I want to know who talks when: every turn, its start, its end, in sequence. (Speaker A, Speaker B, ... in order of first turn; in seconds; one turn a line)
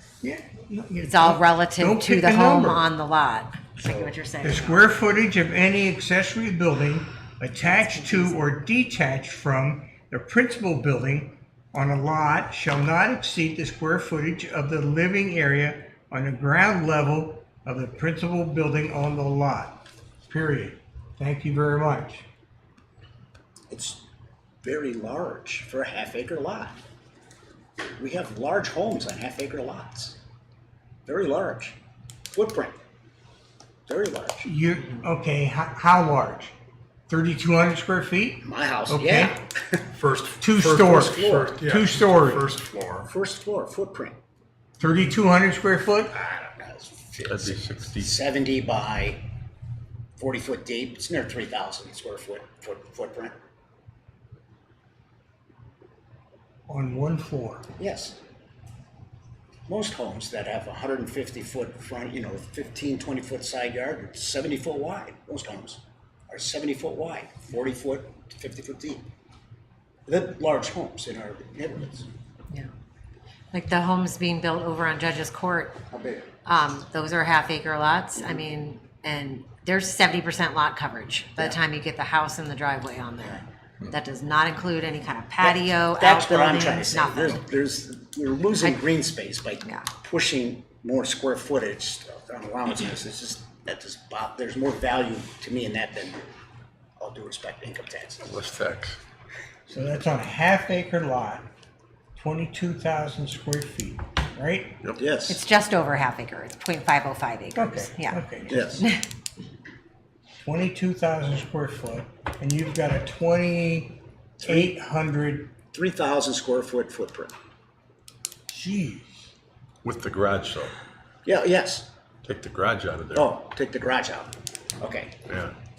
Speaker A: 0.2-2.8
Speaker B: 1.0-4.8
Speaker C: 3.8-4.1
Speaker A: 4.4-22.2
Speaker B: 7.6-8.3
Speaker C: 23.7-24.0
Speaker C: 24.6-26.8
Speaker C: 28.0-30.1
Speaker C: 31.1-31.8
Speaker C: 32.3-32.8
Speaker C: 33.9-34.5
Speaker A: 34.4-36.5
Speaker A: 37.1-39.3
Speaker C: 38.4-39.8
Speaker D: 39.9-43.1
Speaker A: 40.4-42.5
Speaker C: 40.9-41.6
Speaker C: 43.0-44.2
Speaker A: 44.8-46.1
Speaker C: 46.1-49.2
Speaker E: 47.2-48.1
Speaker C: 50.2-53.3
Speaker A: 56.7-57.7
Speaker C: 57.8-58.2
Speaker C: 59.7-69.0
Speaker C: 70.0-72.1
Speaker B: 73.5-75.8
Speaker C: 75.9-76.3
Speaker B: 76.4-87.5
Speaker C: 85.4-96.2
Speaker C: 97.0-98.4
Speaker E: 98.2-99.0
Speaker A: 99.7-101.5
Speaker A: 102.2-104.8
Speaker C: 105.0-105.4
Speaker B: 105.3-108.2
Speaker A: 107.5-108.9
Speaker C: 108.5-108.8
Speaker A: 110.4-115.5
Speaker C: 114.4-114.7
Speaker C: 115.7-117.3
Speaker A: 118.5-119.3
Speaker E: 119.8-120.7
Speaker C: 121.2-121.9
Speaker E: 122.2-123.3
Speaker C: 123.1-125.2
Speaker E: 125.2-125.5